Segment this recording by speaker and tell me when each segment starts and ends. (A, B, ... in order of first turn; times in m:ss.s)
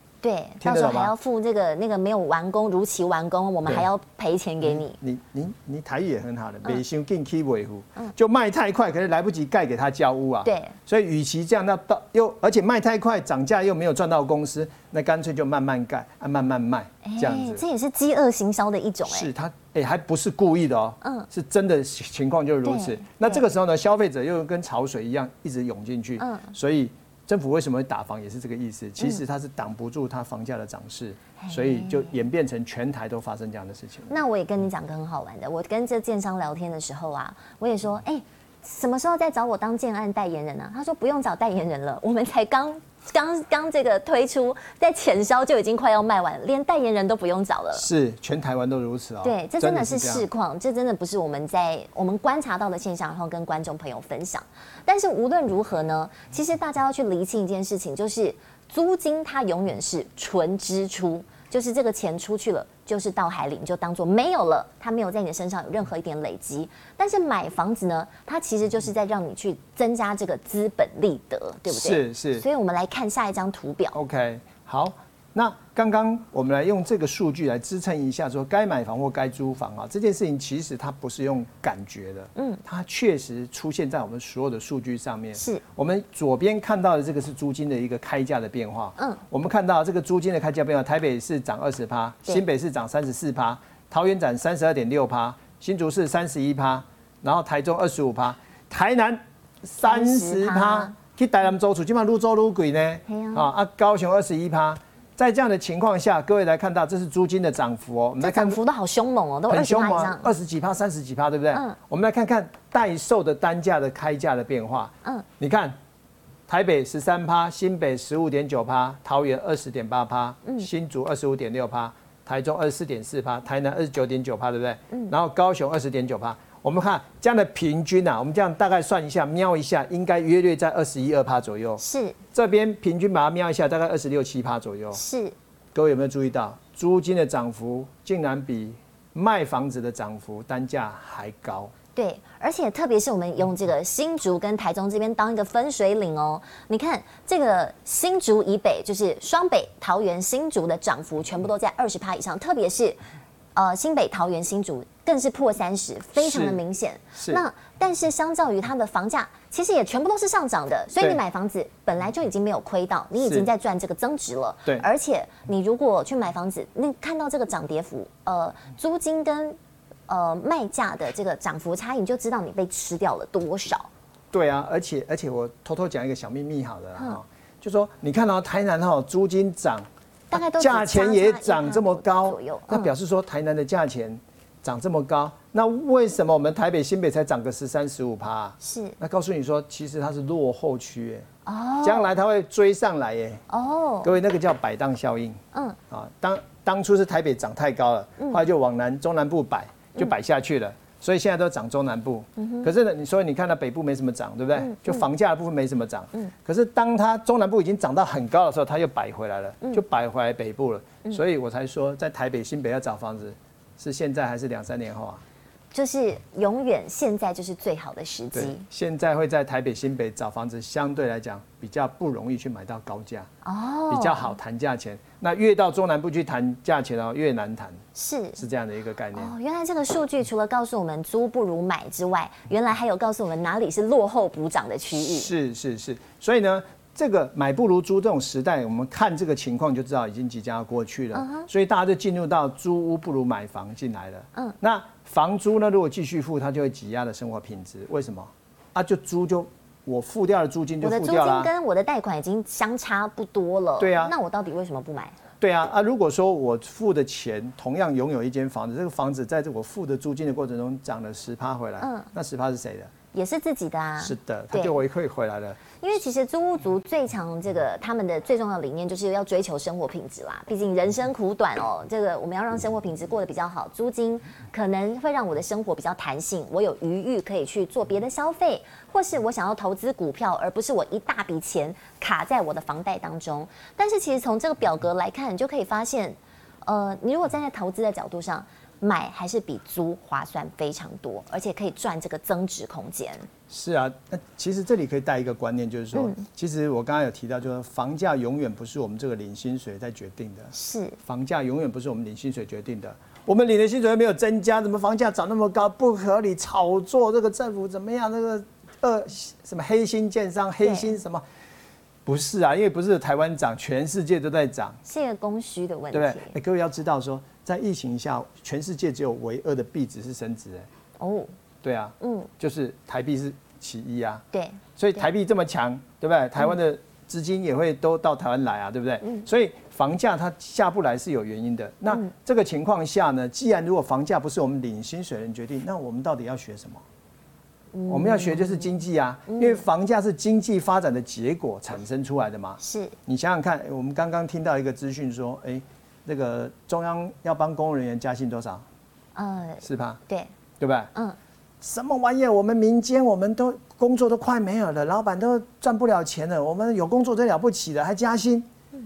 0:00.2-0:05.0 A
0:00.6-0:01.1 B
0:04.6-0:17.6 B
0:10.4-0:10.7 A
0:17.0-0:19.3 A
0:19.0-0:34.2 B
0:21.0-0:21.3 A
0:22.6-0:23.4 A
0:26.2-0:26.5 A
0:31.4-0:32.1 A
0:34.1-0:47.9 A
0:47.7-0:50.3 B
0:49.2-1:14.0 A
1:11.7-1:12.4 B
1:13.9-1:48.6 B
1:22.4-1:22.6 A
1:25.3-1:25.6 A
1:39.8-1:40.9 A
1:43.1-1:43.5 A
1:48.2-1:50.3 A
1:49.5-1:55.8 B
1:56.5-2:15.0 B
2:11.8-2:12.2 A
2:14.9-2:15.3 A
2:15.7-2:21.7 B
2:21.9-2:33.0 A
2:33.5-2:49.6 A
2:36.2-2:36.6 B
2:37.2-2:37.4 B
2:43.2-2:43.5 B
2:50.1-2:53.9 A
2:54.3-3:11.3 B
3:00.3-3:02.9 A
3:08.6-3:09.0 A
3:11.4-3:12.1 A
3:11.8-3:13.4 B
3:13.5-3:14.1 A
3:14.0-3:15.4 B
3:15.5-3:15.8 A
3:15.9-3:35.2 B
3:22.4-3:22.7 A
3:24.6-3:25.0 A
3:35.7-3:38.6 A
3:38.3-3:43.3 B
3:43.4-3:44.4 A
3:43.9-3:47.8 B
3:47.9-3:48.4 A
3:48.4-3:49.3 B
3:49.1-3:55.3 A
3:54.9-4:11.5 B
4:01.1-4:01.5 A
4:10.8-4:15.2 A
4:13.8-4:14.1 B
4:15.4-4:22.9 B
4:21.8-4:22.0 A
4:23.1-4:24.8 A
4:24.0-4:25.6 B
4:25.8-4:53.3 A
4:53.5-5:11.2 B
4:55.9-4:56.2 A
5:00.5-5:01.0 A
5:10.6-5:10.9 A
5:12.0-5:14.8 B
5:14.8-5:16.3 A
5:15.9-5:20.7 B
5:21.0-5:21.3 A
5:21.6-5:24.2 B
5:22.0-5:22.3 A
5:24.3-5:25.0 A
5:24.8-5:36.8 B
5:37.7-5:38.8 A
5:37.9-5:48.6 B
5:39.3-5:39.6 A
5:42.6-5:43.0 A
5:49.1-5:50.3 A
5:49.6-5:50.0 B
5:50.6-5:50.9 B
5:51.6-5:58.5 B